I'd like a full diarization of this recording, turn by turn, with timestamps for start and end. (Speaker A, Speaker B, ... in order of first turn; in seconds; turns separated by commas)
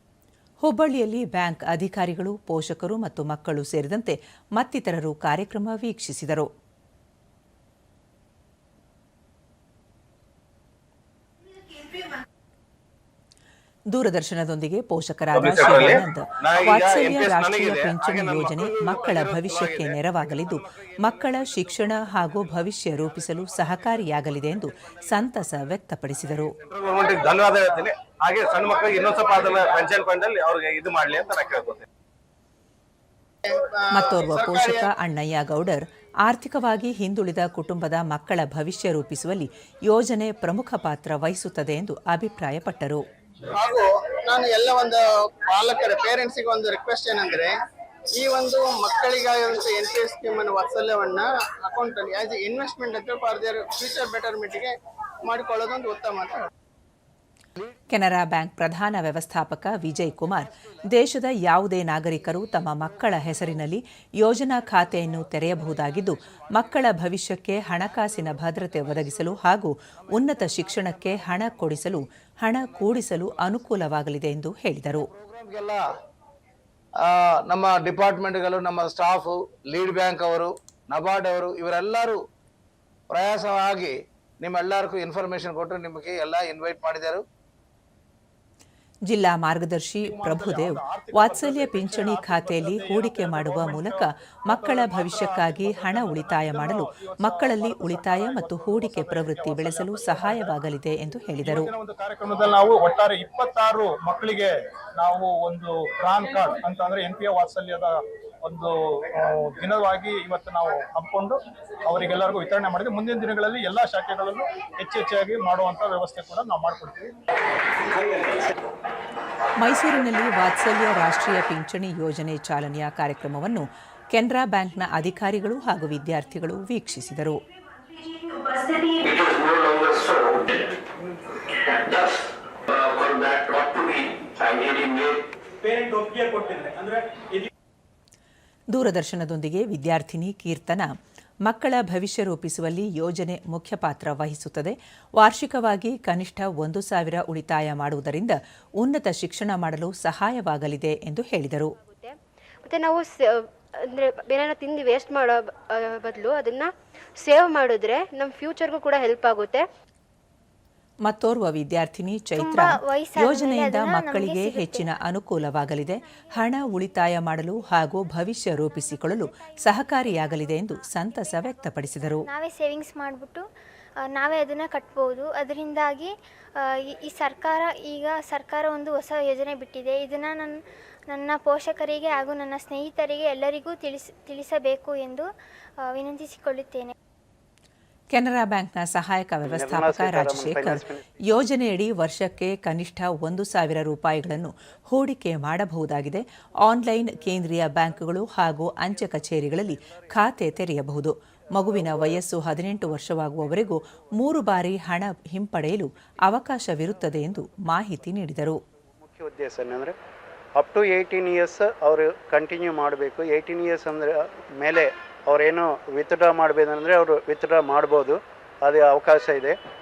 Speaker A: 0.6-6.5, Speaker A: 13.9-26.5, Speaker B: 15.3-24.2, Speaker B: 24.8-25.1, Speaker B: 26.5-31.8, Speaker C: 33.4-34.9, Speaker A: 33.9-43.0, Speaker C: 43.5-47.5, Speaker C: 48.1-54.7, Speaker C: 55.2-56.4, Speaker A: 57.9-75.1, Speaker D: 60.5-60.8, Speaker D: 65.7-66.5, Speaker D: 68.0-69.1, Speaker D: 70.0-72.0, Speaker D: 72.6-73.6, Speaker D: 75.0-75.8, Speaker D: 77.0-82.2, Speaker D: 83.1-87.2, Speaker A: 89.1-101.7, Speaker E: 90.0-100.6, Speaker E: 101.4-117.1, Speaker A: 119.6-127.4, Speaker F: 128.5-128.9, Speaker G: 129.1-130.7, Speaker G: 131.7-132.2, Speaker G: 132.7-135.2, Speaker A: 138.7-140.9, Speaker A: 141.4-151.7, Speaker F: 151.9-159.6, Speaker A: 161.1-172.3, Speaker H: 162.3-173.4, Speaker H: 174.1-180.6, Speaker H: 181.1-185.3, Speaker H: 185.8-186.9, Speaker A: 188.1-208.6, Speaker I: 189.4-191.0, Speaker I: 209.0-209.9, Speaker I: 210.6-219.6